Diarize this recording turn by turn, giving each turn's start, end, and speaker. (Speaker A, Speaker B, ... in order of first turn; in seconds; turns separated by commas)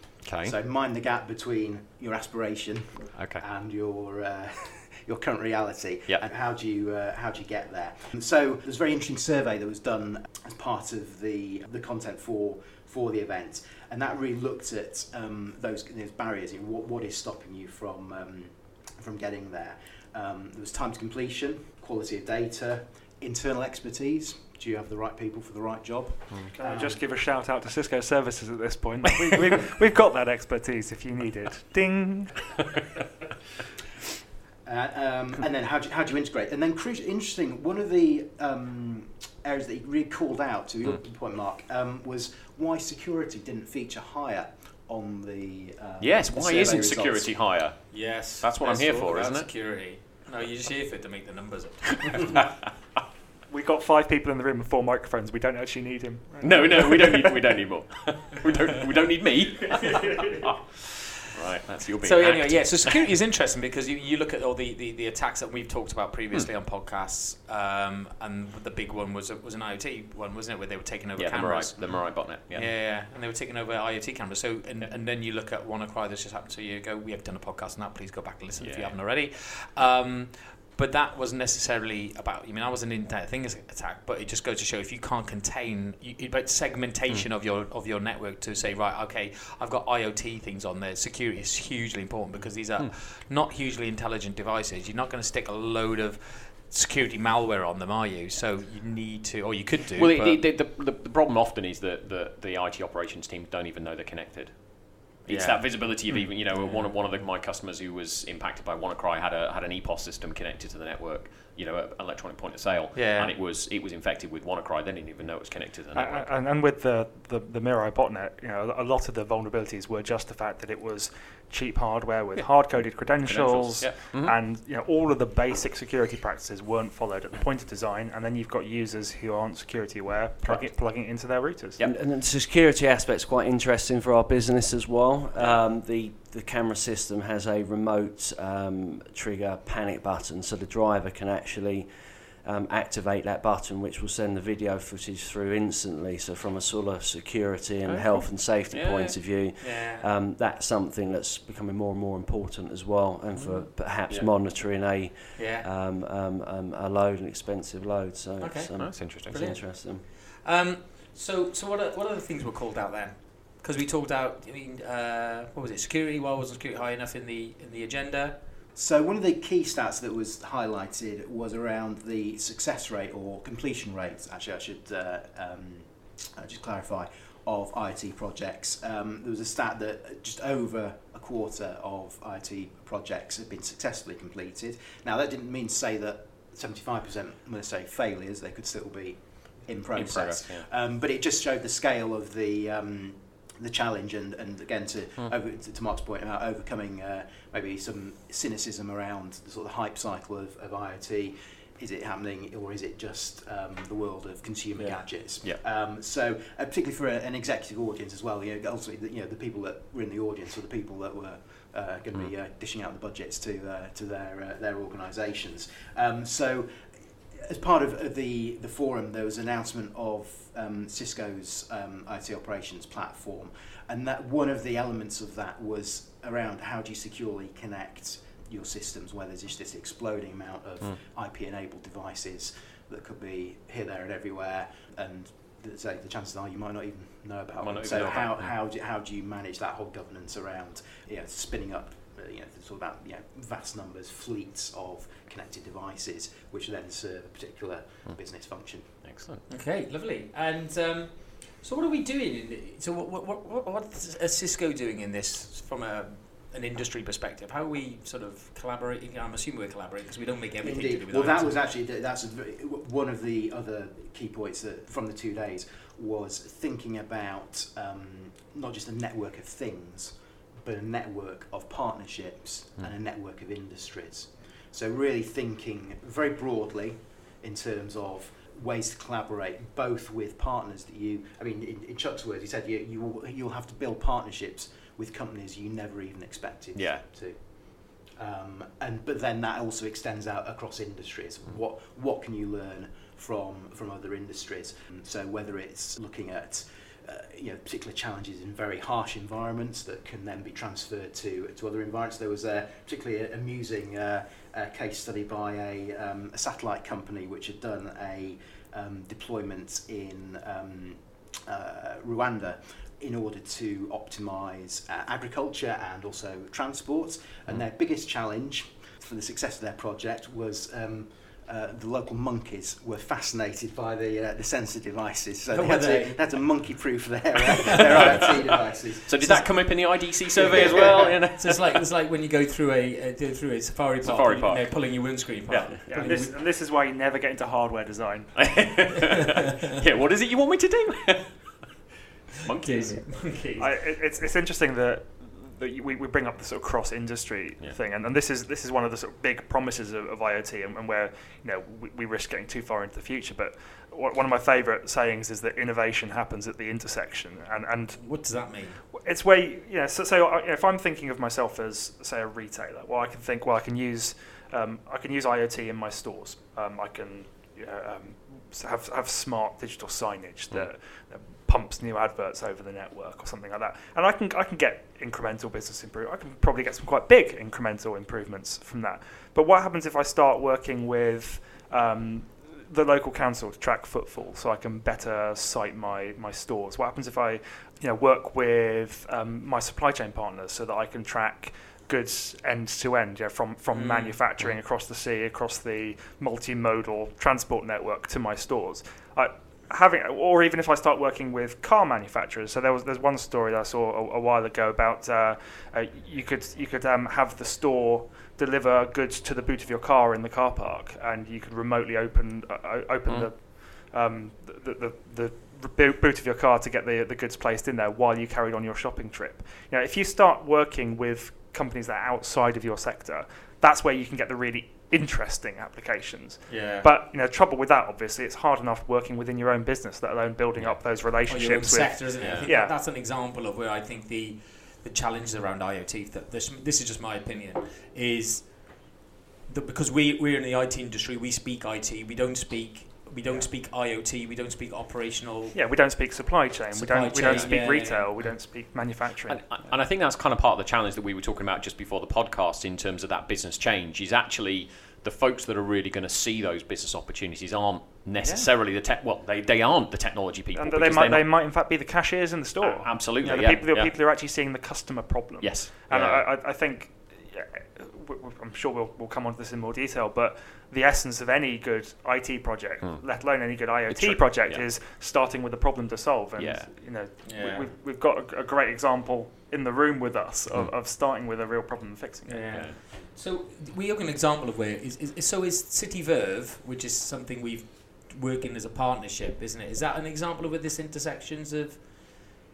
Speaker A: 0.2-0.5, Speaker B: 0.4-27.0, Speaker A: 3.1-3.4, Speaker C: 26.5-32.6, Speaker B: 34.6-47.4, Speaker A: 46.0-49.5, Speaker D: 47.9-52.4, Speaker C: 53.5-57.3, Speaker A: 56.4-60.6, Speaker A: 61.3-63.1, Speaker D: 62.0-100.4, Speaker A: 71.2-72.8, Speaker A: 78.6-79.0, Speaker A: 92.3-92.9, Speaker A: 100.0-116.3, Speaker D: 105.3-106.9, Speaker D: 112.9-113.3, Speaker C: 115.9-131.8, Speaker A: 123.1-124.4, Speaker E: 131.8-141.9, Speaker E: 142.4-160.0, Speaker A: 147.8-149.2, Speaker D: 149.6-150.1, Speaker A: 153.3-154.3, Speaker D: 155.4-155.7, Speaker D: 158.4-168.5, Speaker A: 158.8-159.5, Speaker B: 168.8-249.0, Speaker A: 189.9-190.7, Speaker A: 204.8-205.6, Speaker A: 237.6-238.5, Speaker A: 249.0-249.4, Speaker D: 249.5-261.5, Speaker B: 260.6-329.7, Speaker A: 286.7-287.1, Speaker D: 325.5-326.6, Speaker A: 327.7-331.8, Speaker D: 327.9-328.2, Speaker D: 329.3-330.0, Speaker B: 330.3-331.2, Speaker D: 331.4-336.4, Speaker A: 334.0-336.1, Speaker C: 335.9-338.4, Speaker A: 338.4-341.7, Speaker A: 342.4-343.0, Speaker D: 342.6-343.8, Speaker C: 343.6-358.3, Speaker D: 358.0-358.9, Speaker C: 358.9-432.8, Speaker D: 393.7-394.2, Speaker A: 413.1-413.3, Speaker D: 426.5-426.9, Speaker A: 430.6-430.8, Speaker D: 431.2-445.7, Speaker A: 432.2-432.5, Speaker C: 445.5-449.6, Speaker D: 446.7-448.1, Speaker A: 447.2-447.6, Speaker A: 448.2-461.4, Speaker C: 460.5-482.6, Speaker A: 462.6-464.0, Speaker A: 465.4-466.4, Speaker A: 472.8-474.6, Speaker A: 476.4-476.8, Speaker D: 477.2-477.7, Speaker D: 482.3-492.3, Speaker A: 482.5-482.8